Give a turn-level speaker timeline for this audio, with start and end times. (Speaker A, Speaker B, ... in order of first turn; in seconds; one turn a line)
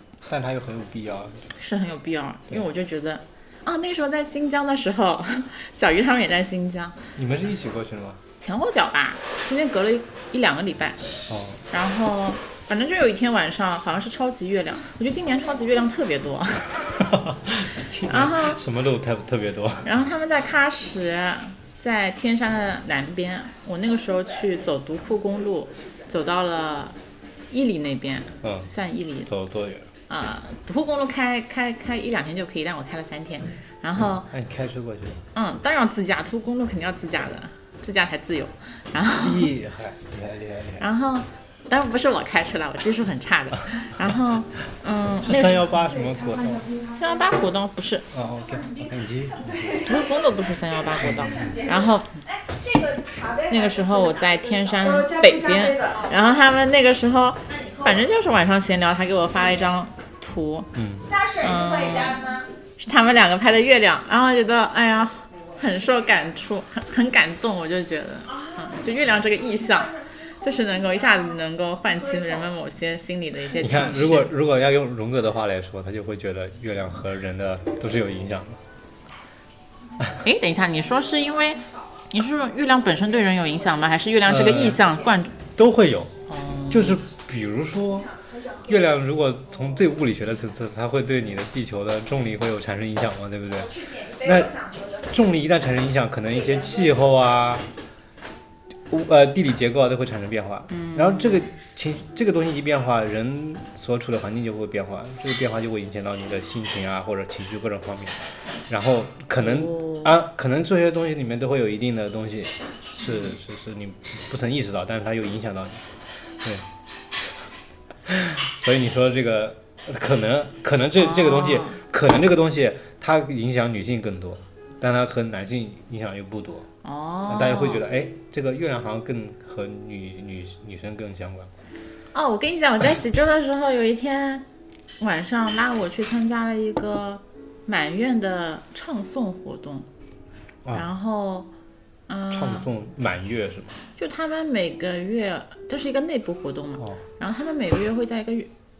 Speaker A: 0.2-1.5
Speaker B: 1.6-7.0
Speaker A: 7.2-8.2
Speaker B: 8.4-11.1
Speaker A: 11.3-11.6
Speaker B: 11.7-16.9
Speaker A: 16.9-19.9
Speaker B: 18.0-18.6
Speaker B: 19.8-26.9
Speaker B: 27.5-29.3
Speaker A: 28.4-28.7
Speaker A: 29.2-29.9
Speaker B: 30.1-34.3
Speaker A: 34.2-35.2
Speaker B: 35.3-39.5
Speaker A: 39.1-40.8
Speaker B: 40.8-45.6
Speaker A: 45.2-46.7
Speaker B: 46.9-48.0
Speaker A: 48.1-49.8
Speaker C: 49.4-50.2
Speaker B: 49.8-52.2
Speaker C: 50.8-54.1
Speaker B: 53.5-60.7
Speaker C: 54.9-56.0
Speaker C: 57.5-57.9
Speaker A: 60.7-61.1
Speaker C: 61.1-62.5
Speaker B: 61.4-62.2
Speaker B: 62.8-74.3
Speaker A: 73.6-78.6
Speaker B: 80.2-85.3
Speaker A: 84.2-84.8
Speaker A: 85.5-86.1
Speaker B: 86.3-87.0
Speaker A: 86.7-88.1
Speaker A: 88.6-97.6
Speaker C: 93.7-95.0
Speaker A: 98.9-108.2
Speaker B: 100.7-101.5
Speaker A: 108.7-116.6
Speaker B: 109.4-110.1
Speaker A: 118.0-126.7
Speaker B: 121.0-121.8
Speaker B: 126.8-127.8
Speaker A: 127.2-131.5
Speaker B: 132.1-134.4
Speaker B: 135.0-139.9
Speaker B: 140.7-141.5
Speaker B: 142.1-142.7
Speaker A: 142.3-143.8
Speaker B: 144.0-148.5